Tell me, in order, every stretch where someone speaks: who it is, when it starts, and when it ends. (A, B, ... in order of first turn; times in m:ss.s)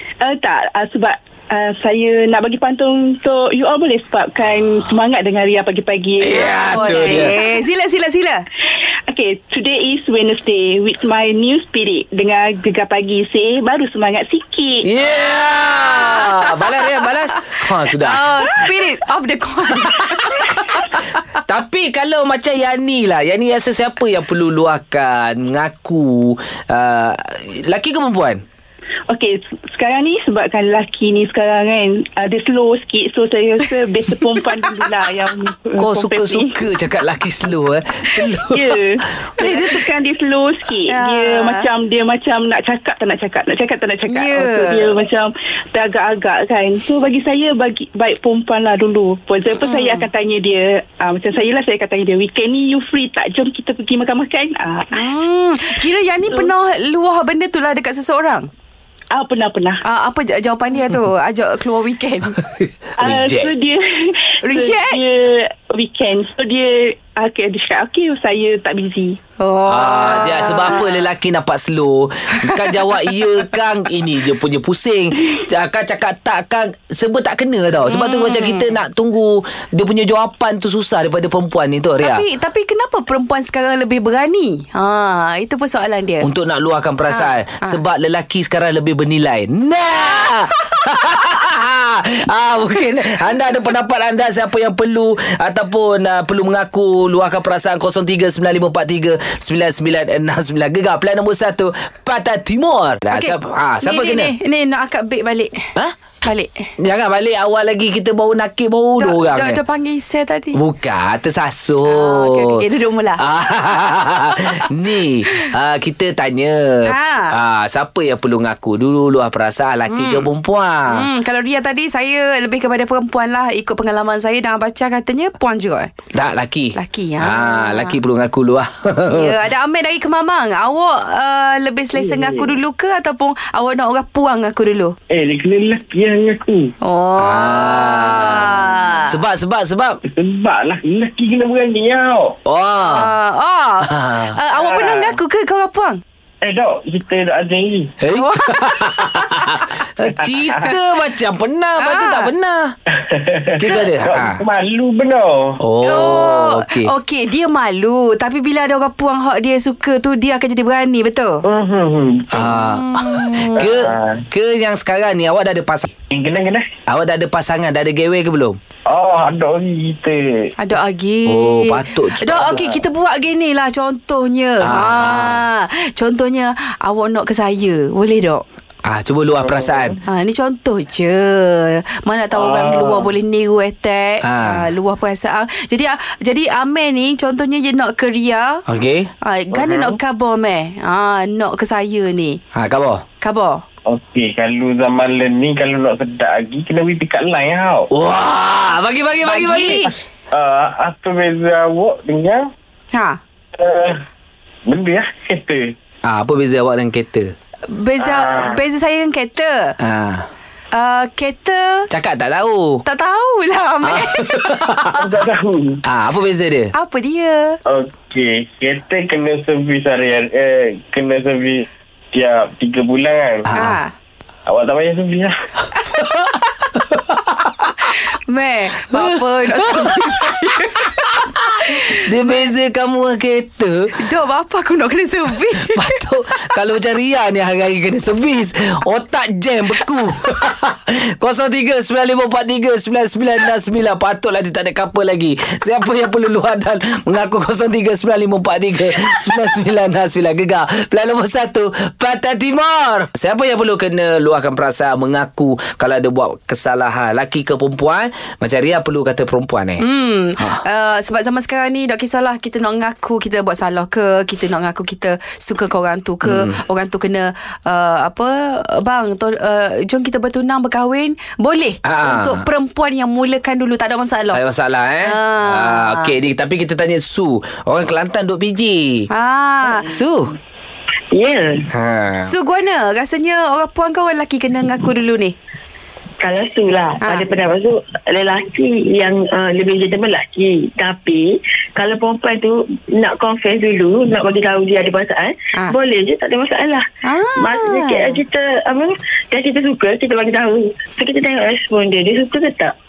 0:00.2-0:07.5 A
0:06.2-0:07.3 B
0:06.6-0:08.4 C
0:09.1-0:14.9 A
0:14.8-0:18.7 B
0:15.4-0:17.1 C
0:17.9-0:21.4 C
0:19.7-0:20.6 B
0:21.5-0:28.4 B
0:29.1-0:36.6 A
0:35.8-0:38.8 B
0:38.4-0:55.1 A
0:39.4-0:39.7 C
0:39.4-0:39.7 B
0:40.9-0:41.6 C
0:44.1-0:44.9 C
0:49.6-0:50.1 C
0:54.9-0:58.5 C
0:56.3-0:56.5 A
0:59.1-0:59.8 A
0:59.8-1:02.4 C
1:02.4-1:03.5 B
1:03.0-1:09.2 A
1:04.4-1:05.0 C
1:09.4-1:11.0 C
1:09.7-1:22.2 B
1:12.3-1:12.7 C
1:17.9-1:18.7 C
1:22.0-1:26.3 C
1:26.2-1:44.3 B
1:27.1-1:27.8 C
1:43.1-1:45.7 C
1:46.2-1:46.7 C
1:46.8-1:49.6 B
1:49.0-1:50.6 C
1:50.5-1:52.6 B
1:51.9-1:53.2 C
1:53.2-2:01.1 B
1:54.4-1:54.7 C
1:56.9-1:57.4 C
1:59.9-2:00.3 C
2:00.9-2:05.9 C
2:06.1-2:09.4 B
2:06.8-2:08.0 C
2:09.1-2:14.9 C
2:12.0-2:12.6 D
2:15.1-2:16.7 D
2:16.8-2:19.1 C
2:17.2-2:20.0 B
2:20.1-2:22.4 D
2:22.5-2:23.1 B
2:22.8-2:26.0 C
2:23.8-2:24.4 B
2:24.6-2:25.2 D
2:26.4-2:27.9 D
2:28.0-2:32.7 B
2:28.1-2:29.5 C
2:31.8-2:32.3 C
2:33.0-2:35.6 D
2:33.6-2:34.4 B
2:35.6-2:36.9 B
2:35.8-2:41.4 C
2:41.4-2:42.6 D
2:42.3-2:45.9 B
2:42.7-2:43.7 C
2:43.6-2:44.2 D
2:46.1-2:46.7 D
2:46.9-2:48.6 B
2:48.9-2:50.2 D
2:50.6-2:58.4 C
2:51.3-2:52.7 B
2:54.6-2:55.4 B
2:58.9-3:00.0 B
2:59.4-3:00.0 D
3:00.1-3:08.6 C
3:02.4-3:03.1 D
3:04.2-3:04.6 B
3:08.7-3:09.1 B
3:09.2-3:12.4 C
3:09.5-3:10.0 D
3:12.5-3:13.0 B
3:13.2-3:13.6 C
3:13.9-3:17.9 D
3:17.9-3:19.9 B
3:19.3-3:19.9 C
3:19.4-3:19.8 D
3:20.3-3:22.4 D
3:22.9-3:23.2 C
3:23.6-3:24.0 D
3:24.7-3:25.7 D
3:26.1-3:27.3 B
3:27.7-3:29.8 C
3:28.0-3:28.6 D
3:29.8-3:30.3 B
3:30.7-3:31.9 C
3:31.9-3:32.8 B
3:32.8-3:34.9 C
3:33.8-3:35.0 B
3:34.9-3:35.8 D
3:35.8-3:36.7 B
3:36.7-3:37.6 C
3:37.7-3:43.5 D
3:43.5-3:43.8 B
3:43.5-3:43.9 C
3:44.5-3:45.3 D
3:45.9-3:46.5 C
3:46.0-3:47.7 B
3:47.8-3:52.4 C
3:48.9-3:54.0 B
3:54.0-3:56.0 C
3:55.6-4:19.8 B
4:19.8-4:34.4 C
4:26.2-4:26.6 B
4:31.8-4:32.5 B
4:34.3-4:39.1 B
4:35.0-4:36.1 C
4:39.1-4:39.9 C
4:39.8-4:40.3 B
4:41.1-4:41.6 E
4:41.7-4:42.3 B
4:42.2-4:45.4 C
4:46.2-4:56.8 E
4:47.0-4:47.3 C
4:57.0-4:58.2 C
4:57.4-5:02.7 E